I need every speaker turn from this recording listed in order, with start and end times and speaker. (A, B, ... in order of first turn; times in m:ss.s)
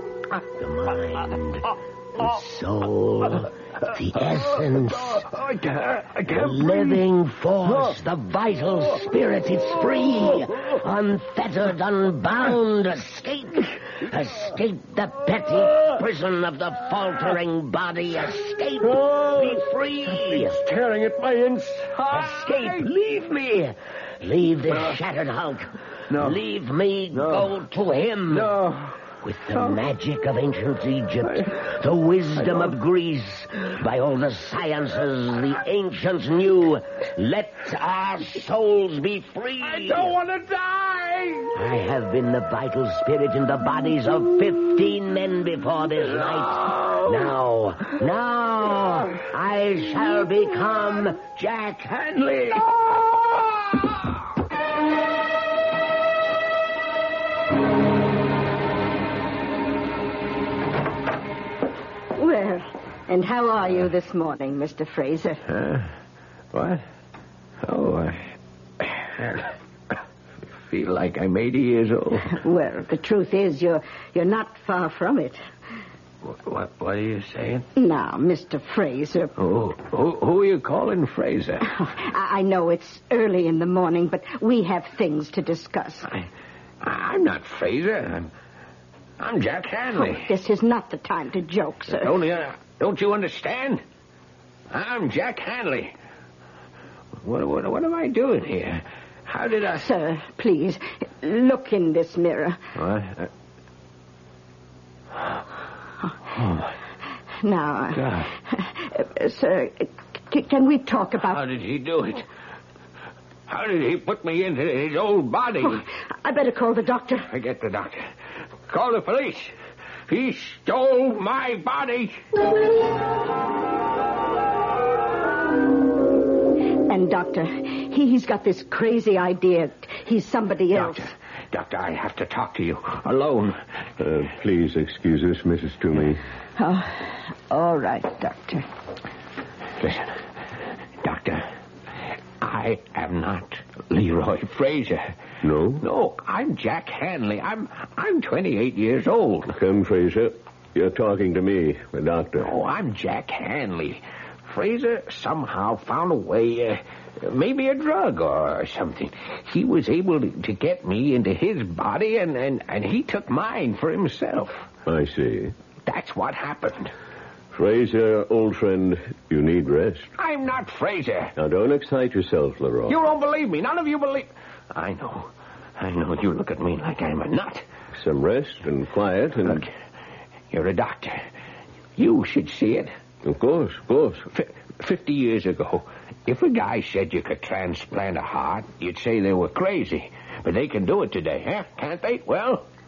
0:00.6-0:05.3 A
0:04.8-0:07.0 B
0:06.3-0:20.6 A
0:07.7-0:07.9 B
0:18.9-0:22.9 B
0:22.1-0:28.5 A
0:26.1-0:26.4 B
0:27.1-0:27.5 B
0:28.3-0:29.0 B
0:29.2-0:40.2 A
0:29.5-0:29.8 B
0:31.2-0:31.5 B
0:39.6-0:41.5 B
0:41.5-0:52.2 A
0:46.8-0:47.1 B
0:52.0-0:52.6 B
1:02.1-1:05.4 C
1:05.5-1:05.9 B
1:06.5-1:06.8 B
1:07.6-1:08.3 B
1:08.8-1:09.5 B
1:10.6-1:12.3 B
1:12.3-1:15.4 C
1:16.2-1:17.7 B
1:17.8-1:19.3 C
1:19.4-1:21.7 B
1:21.6-1:26.1 C
1:26.8-1:28.3 B
1:29.2-1:30.3 B
1:29.9-1:32.1 C
1:31.9-1:33.8 B
1:34.7-1:35.9 B
1:37.2-1:39.8 B
1:39.6-1:42.6 C
1:42.8-1:43.3 B
1:46.4-1:46.6 B
1:47.4-1:51.4 C
1:47.9-1:48.3 B
1:51.2-1:52.2 B
1:53.5-1:55.8 B
1:55.6-1:57.2 C
1:57.3-1:58.1 B
1:58.7-1:59.5 B
2:00.1-2:02.2 B
2:06.9-2:11.1 C
2:10.7-2:13.6 B
2:14.0-2:16.2 D
2:16.6-2:18.6 C
2:19.8-2:20.1 B
2:21.0-2:21.5 B
2:22.4-2:25.1 B
2:25.4-2:25.8 D
2:25.8-2:29.5 B
2:29.5-2:32.6 D
2:32.4-2:44.7 B
2:44.8-2:45.5 D
2:45.8-2:46.9 B
2:47.5-2:50.1 D
2:50.2-2:51.3 B
2:51.4-2:53.0 D
2:52.9-2:57.6 B
2:57.9-2:59.7 D
3:00.5-3:01.2 B
3:02.0-3:02.9 B
3:03.2-3:04.2 D
3:04.3-3:12.6 B